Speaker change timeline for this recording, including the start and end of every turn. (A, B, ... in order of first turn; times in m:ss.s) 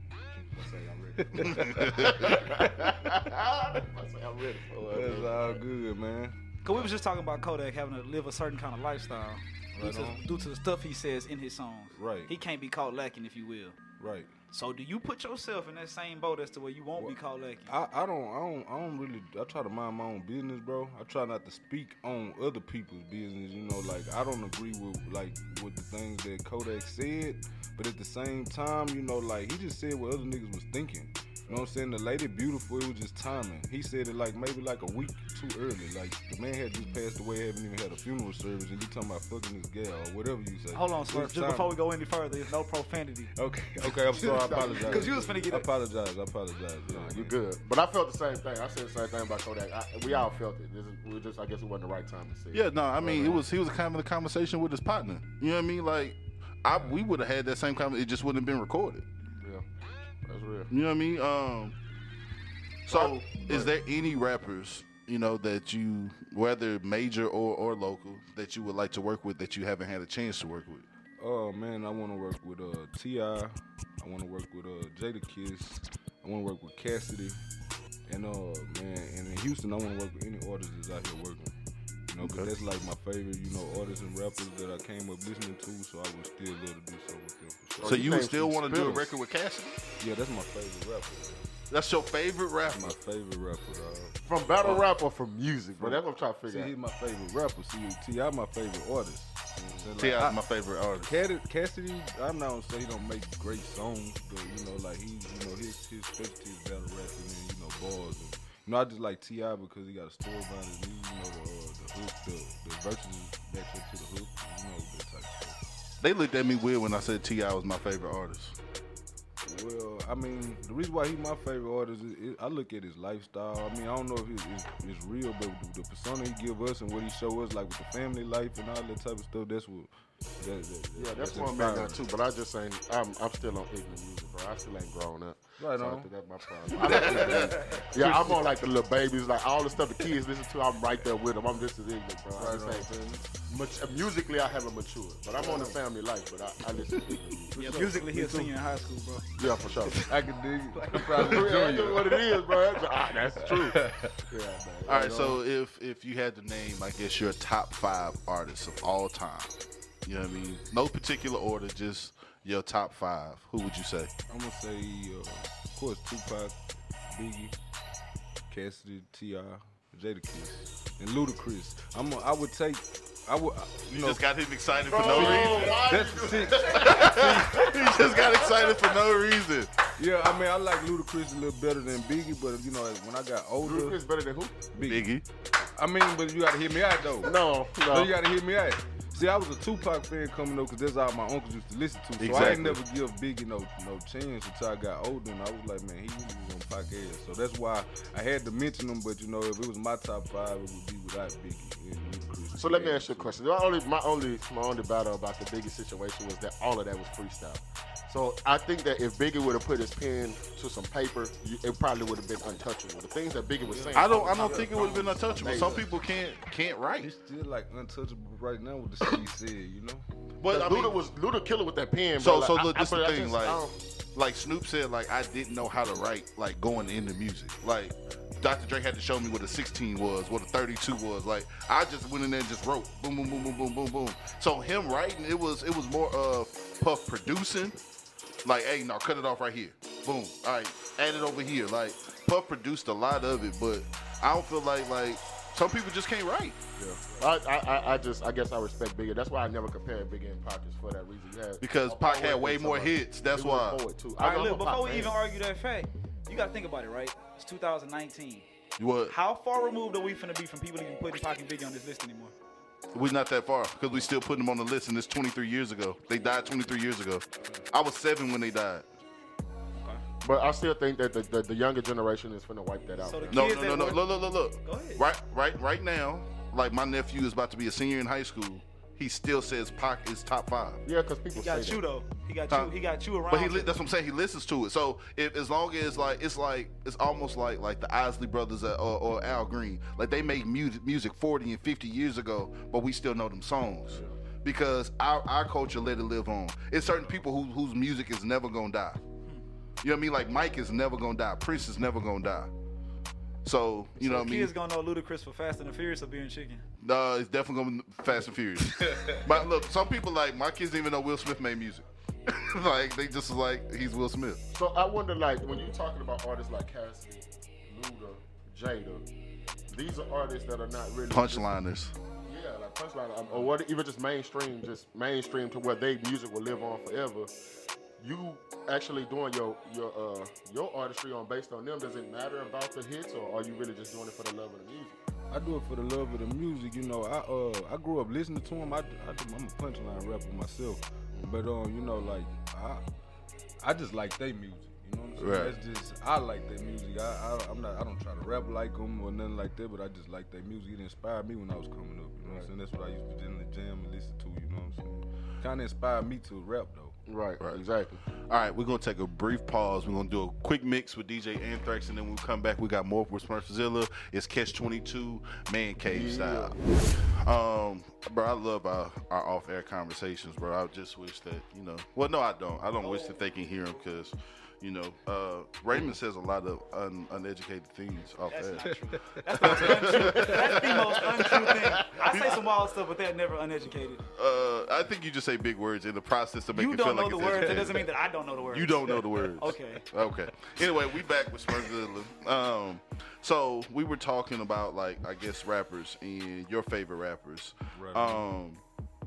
0:00.4-0:03.2 A
0:00.5-0:05.6 B
0:01.5-0:02.2 C
0:04.9-0:06.4 A
0:06.6-0:13.8 D
0:09.7-0:10.4 A
0:11.9-0:12.3 A
0:14.0-0:14.3 A
0:14.5-0:17.7 D
0:17.0-0:41.8 A
0:40.7-0:43.3 D
0:43.4-0:47.3 A
0:44.1-0:45.4 B
0:44.6-0:45.7 D
0:46.9-0:53.4 B
0:52.5-0:59.0 C
0:59.4-0:59.6 B
1:00.2-1:00.7 B
1:00.7-1:01.8 C
1:02.8-1:10.8 C
1:02.9-1:03.7 B
1:11.2-1:17.4 A
1:18.1-1:21.5 A
1:22.1-1:29.0 A
1:22.2-1:22.5 C
1:27.8-1:29.0 B
1:27.8-1:29.8 C
1:30.0-1:31.5 A
1:31.7-1:32.9 C
1:32.7-1:34.2 A
1:34.2-1:36.7 B
1:35.8-1:40.4 A
1:39.6-1:39.9 B
1:40.0-1:41.2 C
1:41.0-1:55.6 A
1:56.0-1:58.6 C
1:59.4-2:12.0 A
2:11.0-2:22.9 B
2:15.6-2:16.1 A
2:16.8-2:18.4 A
2:16.8-2:17.5 C
2:22.4-2:23.2 A
2:23.5-2:28.1 B
2:25.4-2:25.8 A
2:27.6-2:28.5 A
2:27.6-2:29.2 D
2:29.4-2:30.0 B
2:29.9-2:32.1 A
2:30.7-2:31.2 D
2:31.1-2:33.8 B
2:33.4-2:35.2 A
2:34.8-2:35.4 B
2:34.9-2:44.1 C
2:44.3-2:47.6 A
2:48.5-2:54.2 A
2:54.0-2:55.8 C
2:54.8-2:58.0 A
2:54.9-2:58.7 B
2:56.8-2:59.7 C
3:00.0-3:04.0 A
3:03.6-3:04.6 B
3:04.7-3:05.1 A
3:04.8-3:05.2 C
3:05.8-3:07.4 A
3:07.2-3:08.1 B
3:07.9-3:23.4 A
3:12.2-3:12.8 C
3:22.5-3:35.8 B
3:33.6-3:36.0 A
3:33.9-3:37.1 C
3:37.0-3:40.0 A
3:40.4-3:41.0 C
3:40.5-3:43.8 B
3:42.2-3:43.6 C
3:44.1-3:57.8 C
3:58.4-4:06.6 C
4:06.8-4:15.2 B
4:11.6-4:13.8 C
4:14.2-4:18.4 D
4:18.8-4:19.1 C
4:19.1-4:22.3 D
4:22.9-4:28.9 C
4:30.2-4:33.4 B
4:33.0-4:34.1 D
4:33.3-4:40.8 C
4:34.6-4:35.0 D
4:40.8-4:41.8 B
4:41.3-4:43.8 D
4:42.5-4:42.7 C
4:43.3-4:59.0 C
4:59.8-5:02.5 C
5:03.4-5:04.5 C
5:04.0-5:06.6 D
5:06.8-5:14.4 C
5:14.5-5:19.0 B
5:19.7-5:21.4 B
5:21.1-5:21.9 C
5:22.2-5:27.3 B
5:28.0-5:35.0 B
5:35.3-5:42.8 A
5:43.6-5:57.0 A
5:45.2-5:45.6 C
5:57.1-5:58.0 B
5:57.4-5:57.6 C
5:58.3-6:22.5 C
6:05.8-6:06.6 B
6:12.8-6:13.2 D
6:18.3-6:24.0 D
6:18.6-6:20.3 A
6:24.1-6:27.9 C
6:26.5-6:29.8 D
6:27.4-6:27.7 A
6:28.4-6:38.6 C
6:37.7-6:38.3 A